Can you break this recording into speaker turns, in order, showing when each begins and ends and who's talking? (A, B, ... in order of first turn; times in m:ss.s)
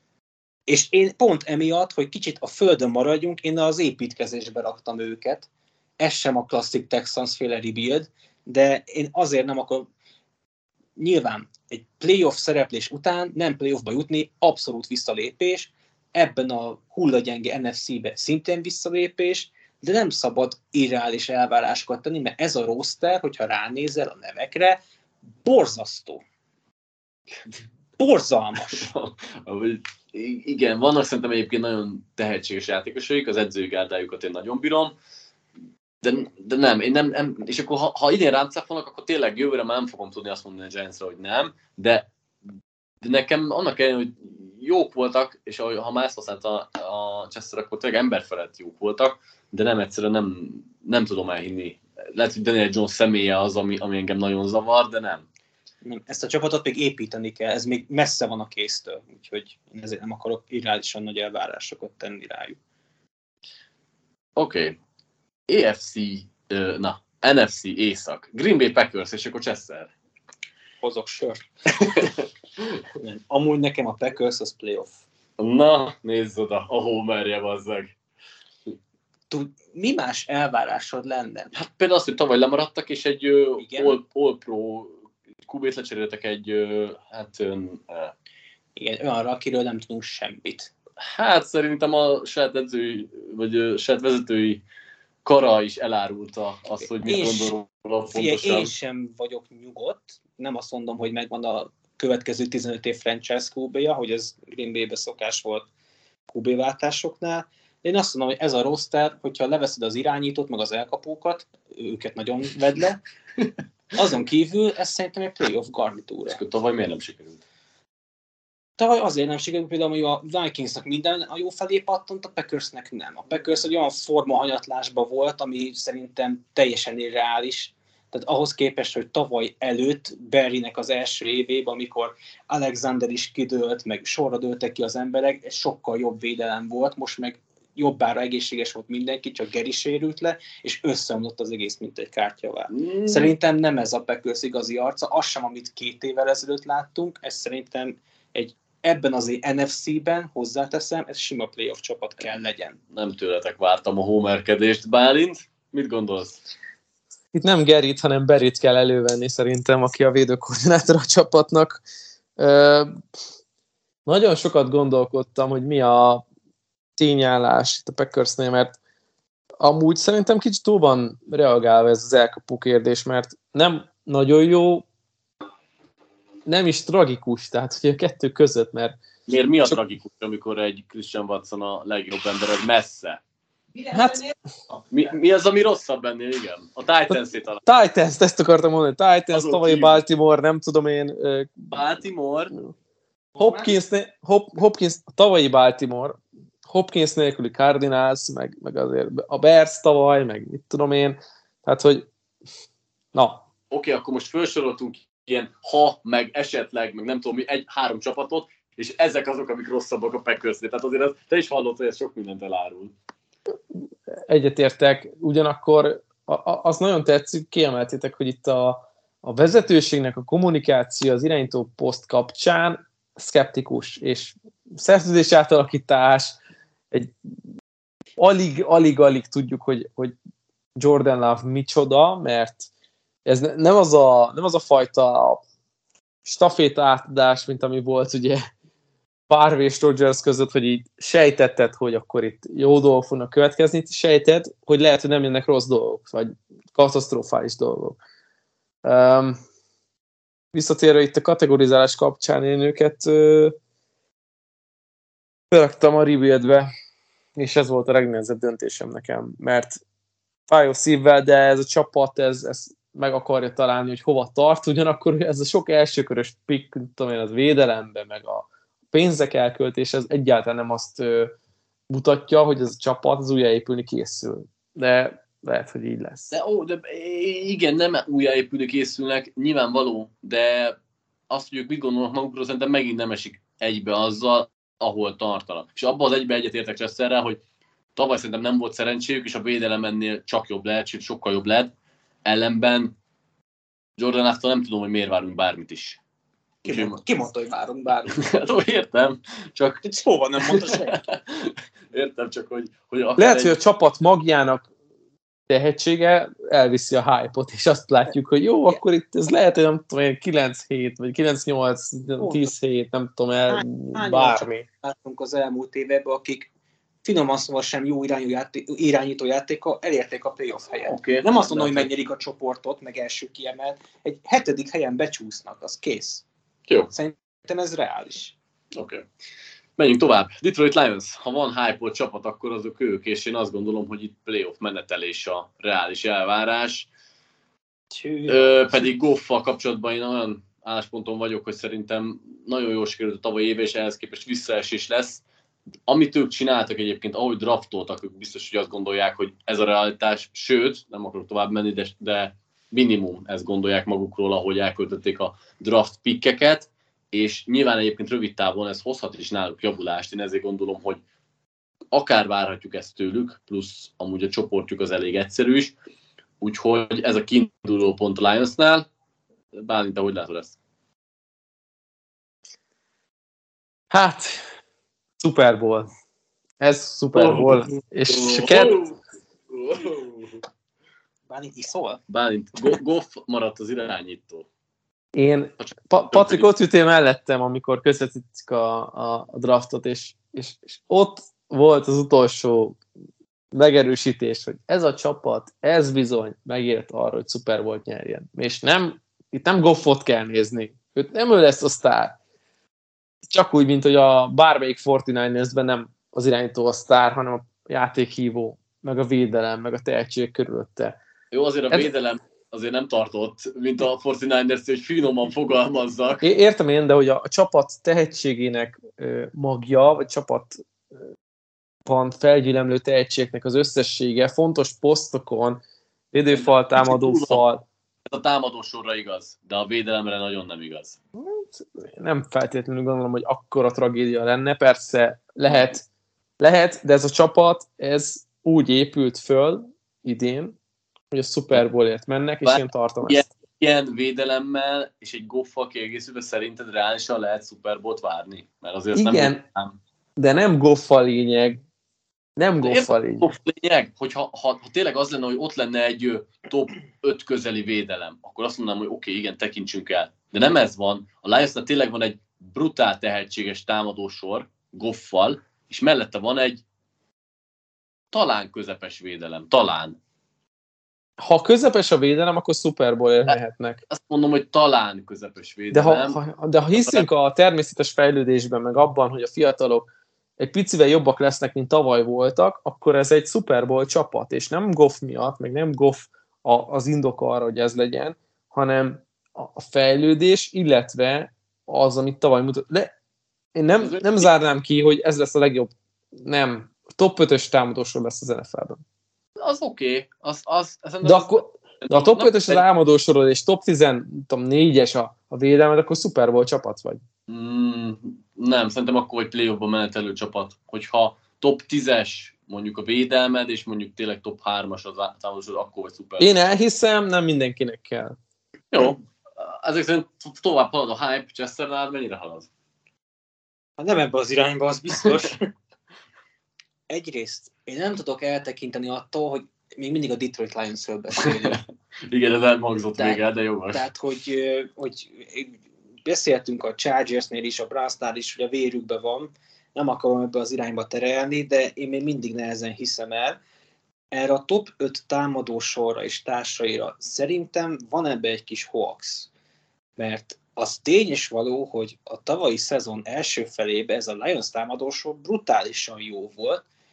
0:00.7-0:05.5 A
0:06.0-0:09.9 A
0:11.0-0:24.8 A
0:25.4-0:26.2 A
0:28.0-0:28.8 A
0:28.6-0:35.0 B
0:36.0-0:42.1 B
0:43.0-0:55.3 B
0:55.8-1:02.6 A
1:04.4-1:04.8 B
1:05.5-1:09.9 B
1:10.8-1:11.4 A
1:11.8-1:12.8 B
1:13.0-1:15.0 A
1:15.4-1:18.0 B
1:19.3-1:21.5 A
1:21.5-1:28.1 B
1:23.6-1:24.0 A
1:28.8-1:30.7 A
1:31.0-1:34.6 B
1:35.2-1:38.7 B
1:37.0-1:37.5 A
1:38.1-1:45.7 A
1:46.3-1:53.0 A
1:53.9-1:56.4 A
1:56.3-1:57.4 B
1:58.8-2:32.8 A
2:22.7-2:23.3 B
2:32.9-2:36.4 B
2:37.3-2:41.8 C
2:42.4-2:43.0 C
2:44.1-2:46.2 C
2:47.0-2:48.8 C
2:49.6-2:54.9 C
2:56.5-2:59.0 C
2:59.3-3:03.2 B
3:03.8-3:04.9 A
3:03.9-3:04.2 C
3:04.9-3:07.6 B
3:07.6-3:11.8 C
3:09.3-3:10.0 B
3:11.7-3:12.5 B
3:13.4-3:13.7 A
3:13.4-3:22.1 C
3:23.1-3:23.4 C
3:23.7-3:33.0 B
3:34.2-3:46.4 C
3:48.2-3:50.2 C
3:50.8-3:52.7 C
3:53.2-3:55.4 C
3:56.2-3:58.5 C
3:59.3-4:08.0 C
4:08.8-4:09.4 C
4:10.5-4:13.6 C
4:15.5-4:16.7 C
4:17.4-4:19.8 C
4:20.5-4:31.3 C
4:31.9-4:36.3 C
4:36.3-4:40.8 B
4:41.3-4:47.4 B
4:48.0-4:51.7 B
4:52.2-4:53.0 B
4:54.0-4:56.0 B
4:56.6-4:58.2 A
4:56.6-4:57.0 B
4:58.1-5:03.6 B
4:59.9-5:01.0 A
5:03.2-5:04.7 C
5:05.5-5:14.7 C
5:12.2-5:12.5 A
5:13.5-5:16.5 A
5:17.0-5:26.2 A
5:20.8-5:21.9 B
5:26.9-5:28.4 A
5:28.7-5:29.1 B
5:29.8-5:36.9 B
5:37.9-5:38.9 A
5:38.3-5:45.2 B
5:45.9-6:01.0 B
6:01.9-6:05.8 B
6:06.4-6:08.9 B
6:09.5-6:10.6 B
6:13.9-6:14.5 C
6:15.2-6:15.9 C
6:16.6-6:18.8 C
6:17.2-6:20.4 B
6:21.3-6:22.0 A
6:22.1-6:24.5 B
6:25.2-6:32.8 C
6:25.6-6:26.5 B
6:33.5-6:42.2 C
6:43.3-6:51.0 C
6:51.3-6:56.2 B
6:56.2-7:00.6 C
7:01.8-7:07.6 C
7:06.3-7:07.4 B
7:08.1-7:11.0 B
7:11.2-7:15.8 C
7:16.4-7:20.6 C
7:21.1-7:23.3 C
7:22.4-7:29.8 B
7:28.9-7:29.4 C
7:30.2-7:31.6 C
7:32.4-7:33.3 C
7:32.6-7:46.6 B
7:48.1-7:50.0 B
7:51.2-7:53.8 C
7:53.9-7:56.2 B
7:55.7-7:59.9 C
7:56.8-7:57.0 B
8:00.4-8:12.9 C
8:13.6-8:18.8 C
8:13.8-8:14.3 B
8:19.4-8:22.6 B
8:21.0-8:27.0 C
8:27.3-8:36.4 B
8:36.2-8:38.2 C
8:38.7-8:42.5 B
8:43.8-8:45.5 A
8:46.9-8:51.6 A
8:51.2-8:53.9 B
8:53.0-9:03.4 A
9:04.1-9:09.3 A
9:10.0-9:16.6 A